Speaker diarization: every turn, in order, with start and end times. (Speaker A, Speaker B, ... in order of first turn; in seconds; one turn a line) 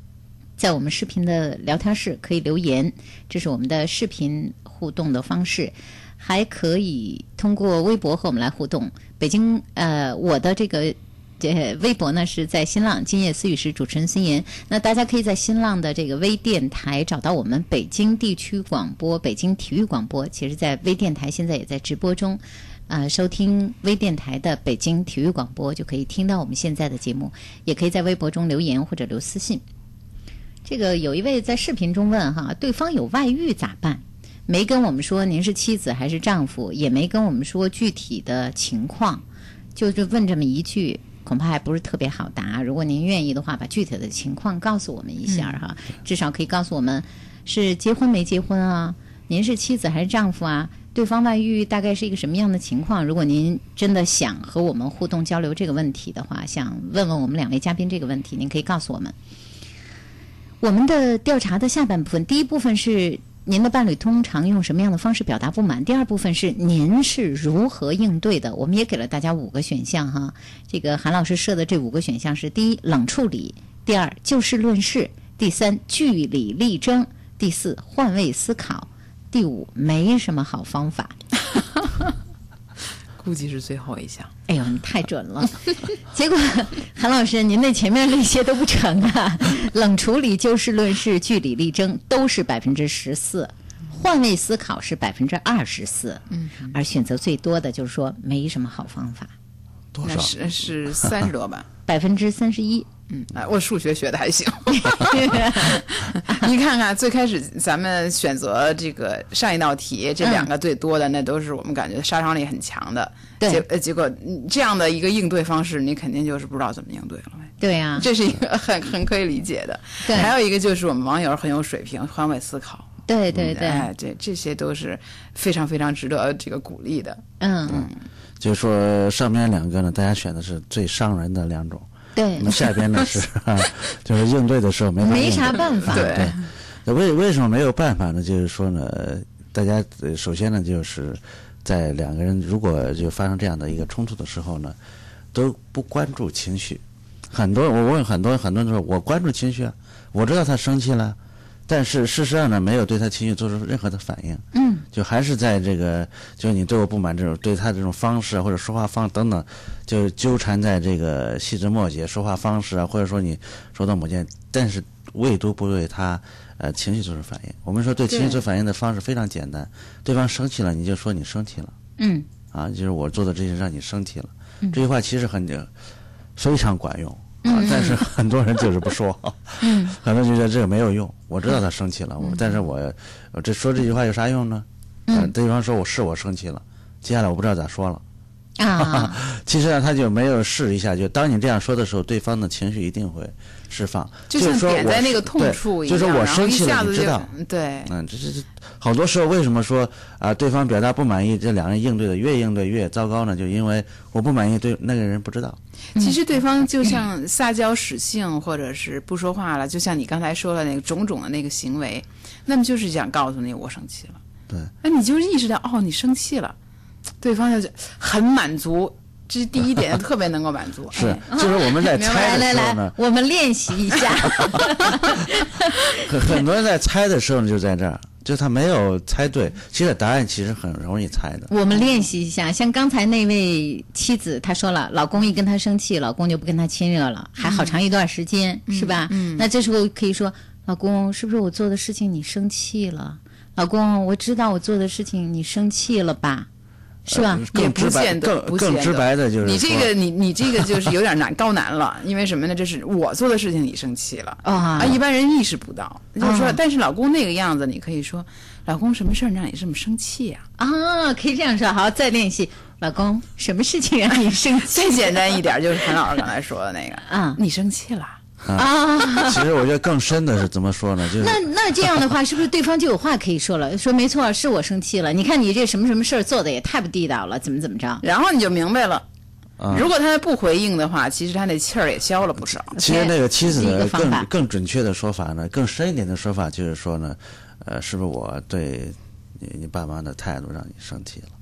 Speaker A: 0.6-29.6
Speaker A: 30.6-39.2
Speaker A: 39.7-59.1
Speaker B: 45.3-45.6
Speaker A: 60.6-81.1
Speaker B: 83.2-84.3
Speaker A: 84.5-99.3
Speaker B: 96.3-96.7
Speaker C: 99.9-100.3
Speaker B: 100.0-101.7
Speaker A: 101.9-102.9
Speaker B: 103.1-127.9
Speaker A: 104.7-105.8
Speaker A: 110.2-110.5
Speaker A: 117.6-118.1
Speaker A: 120.0-120.3
Speaker A: 123.1-123.9
Speaker A: 127.4-127.9
Speaker C: 128.4-144.8
Speaker A: 132.2-132.5
Speaker A: 135.0-136.2
Speaker B: 135.8-136.4
Speaker C: 145.3-151.2
Speaker C: 151.7-171.7
Speaker A: 154.5-154.8
Speaker A: 172.0-172.2
Speaker C: 172.5-175.7
Speaker C: 176.3-188.0
Speaker A: 177.4-178.0
Speaker A: 179.6-179.9
Speaker A: 182.2-182.5
Speaker A: 188.6-189.2
Speaker C: 188.8-197.3
Speaker B: 194.3-197.9
Speaker C: 197.8-205.6
Speaker B: 205.9-214.2
Speaker B: 214.8-216.6
Speaker B: 217.2-222.4
Speaker C: 220.9-222.9
Speaker A: 221.3-225.8
Speaker C: 226.0-231.5
Speaker A: 231.5-246.5
Speaker B: 237.4-237.8
Speaker B: 238.7-239.5
Speaker A: 247.1-247.4
Speaker C: 247.1-250.9
Speaker B: 247.5-260.4
Speaker A: 254.4-255.0
Speaker A: 256.2-256.6
Speaker A: 260.6-265.1
Speaker B: 264.7-268.2
Speaker A: 267.1-267.4
Speaker C: 268.4-271.4
Speaker A: 268.5-269.4
Speaker A: 271.2-278.0
Speaker B: 278.0-279.0
Speaker C: 279.6-279.9
Speaker B: 279.7-282.8
Speaker C: 282.7-291.3
Speaker A: 282.8-284.3